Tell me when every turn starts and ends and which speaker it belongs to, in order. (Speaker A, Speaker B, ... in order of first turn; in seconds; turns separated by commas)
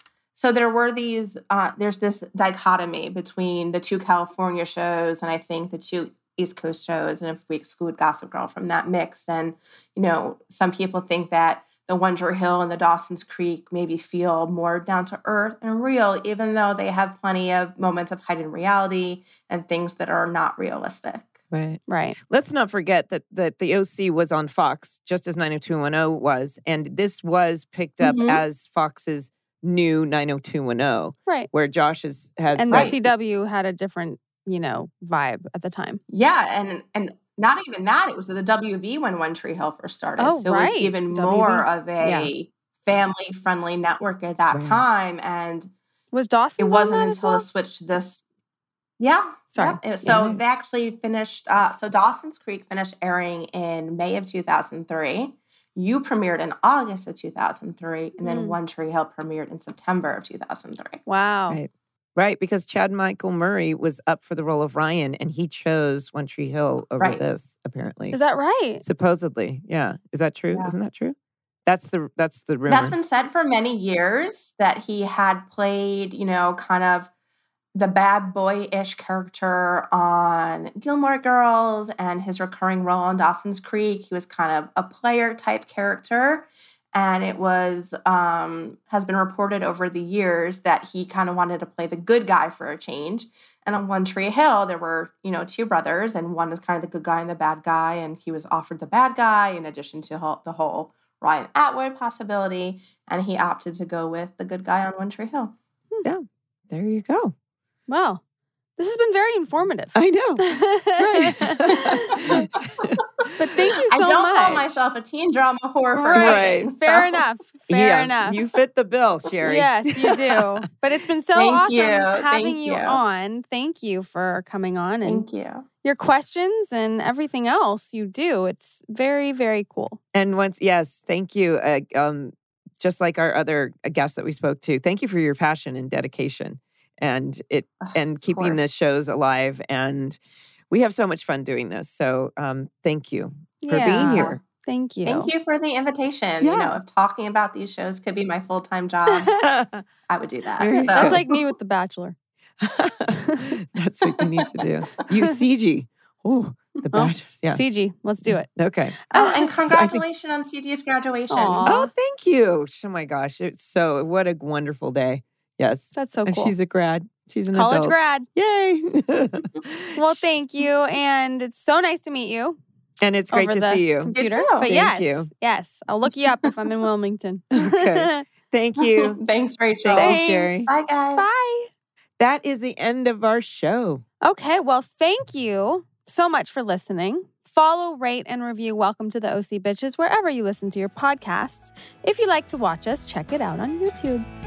Speaker A: 0.4-21.4, Speaker B: 21.5-33.0, Speaker C: 21.9-22.2, Speaker A: 28.0-28.4, Speaker C: 32.5-36.0, Speaker A: 32.7-33.0, Speaker A: 36.1-45.7, Speaker C: 40.2-42.3, Speaker B: 44.5-44.8, Speaker C: 46.1-47.5, Speaker A: 46.6-48.2, Speaker A: 49.0-61.0, Speaker C: 49.5-49.8, Speaker B: 50.0-50.4, Speaker C: 58.2-58.6, Speaker C: 61.1-61.6, Speaker B: 61.5-68.2, Speaker C: 68.1-68.8, Speaker B: 68.8-73.0, Speaker A: 72.7-77.1, Speaker A: 77.7-105.5, Speaker B: 106.0-107.3, Speaker C: 107.9-108.2, Speaker C: 108.8-112.5, Speaker B: 110.0-110.4, Speaker B: 111.0-113.7, Speaker A: 111.7-112.4, Speaker C: 113.4-114.8, Speaker A: 113.9-117.2, Speaker C: 116.0-118.4, Speaker B: 116.1-116.7, Speaker B: 117.7-120.6, Speaker C: 119.4-125.3, Speaker A: 121.3-123.0, Speaker A: 125.0-125.7, Speaker C: 125.8-130.0, Speaker B: 130.1-140.2, Speaker A: 137.8-138.6, Speaker B: 140.7-144.4, Speaker C: 143.6-145.3, Speaker A: 145.1-149.4, Speaker B: 146.4-146.8, Speaker B: 149.4-149.8, Speaker A: 150.1-151.2, Speaker B: 150.6-151.2, Speaker C: 150.9-152.2, Speaker B: 152.6-157.6, Speaker C: 153.2-153.6, Speaker A: 154.2-154.7, Speaker C: 156.9-158.5, Speaker B: 158.3-159.0, Speaker C: 159.1-159.5, Speaker A: 159.1-161.7, Speaker B: 159.6-160.1, Speaker C: 161.3-161.9, Speaker B: 161.7-170.4, Speaker C: 165.9-166.5, Speaker C: 167.5-168.3, Speaker C: 170.0-172.6, Speaker B: 173.0-175.3, Speaker C: 173.3-178.2, Speaker A: 174.1-174.7, Speaker B: 177.5-179.2, Speaker A: 178.8-181.3, Speaker B: 179.8-180.7, Speaker C: 179.9-181.7, Speaker B: 182.2-184.0, Speaker C: 184.2-194.3